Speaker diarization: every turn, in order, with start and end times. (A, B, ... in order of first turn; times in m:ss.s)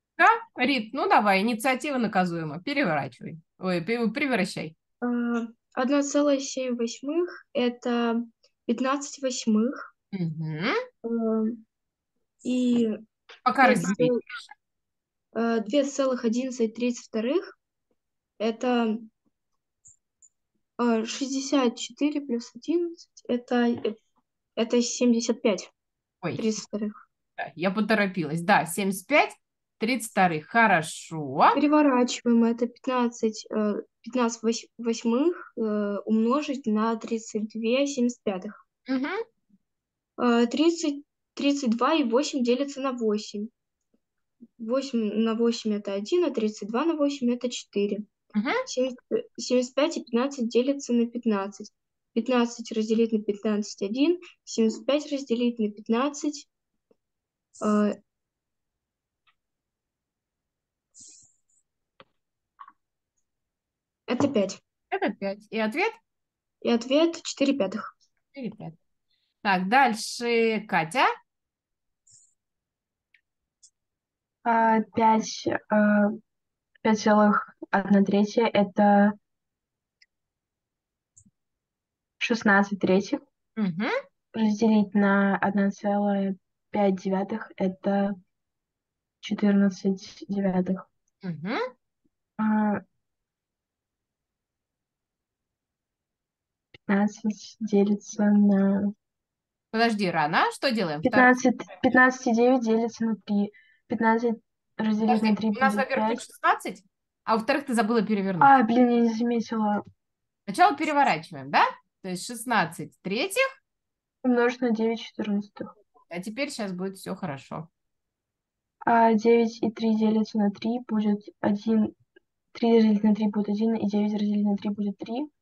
0:00.2-0:04.7 A
0:05.0-0:09.9 B
0:10.1-0:10.8 A
0:11.0-0:11.6 B
0:12.4-0:13.0 B
0:13.5-0:14.2 A
0:13.6-0:14.2 B
0:15.3-0:17.6 B
0:18.4-0:19.1 B
0:20.8-0:24.0 B
0:24.6-0:25.7 B
0:26.2-0:26.5 A
0:26.4-0:27.0 B
0:27.4-0:31.6 A
0:31.6-0:38.6 B
0:38.9-0:39.2 A
0:40.2-0:43.5 B
0:44.6-0:48.1 B
0:48.4-0:48.6 A
0:48.7-0:56.5 B
0:57.6-0:58.0 B
1:04.1-1:04.6 B
1:04.9-1:06.0 A
1:06.6-1:07.9 B
1:08.4-1:08.8 A
1:09.4-1:11.1 A
1:14.4-1:16.2 C
1:16.8-1:19.2 C
1:22.2-1:23.2 C
1:23.6-1:23.9 A
1:24.3-1:28.2 C
1:29.2-1:30.9 C
1:31.2-1:31.6 A
1:32.4-1:32.8 C
1:36.9-1:38.9 C
1:39.7-1:41.3 A
1:41.0-1:46.2 C
1:45.1-1:48.5 A
1:48.4-1:49.8 C
1:50.5-1:53.4 A
1:54.2-1:55.7 C
1:56.1-1:57.7 A
1:58.9-2:01.9 C
2:02.5-2:05.3 C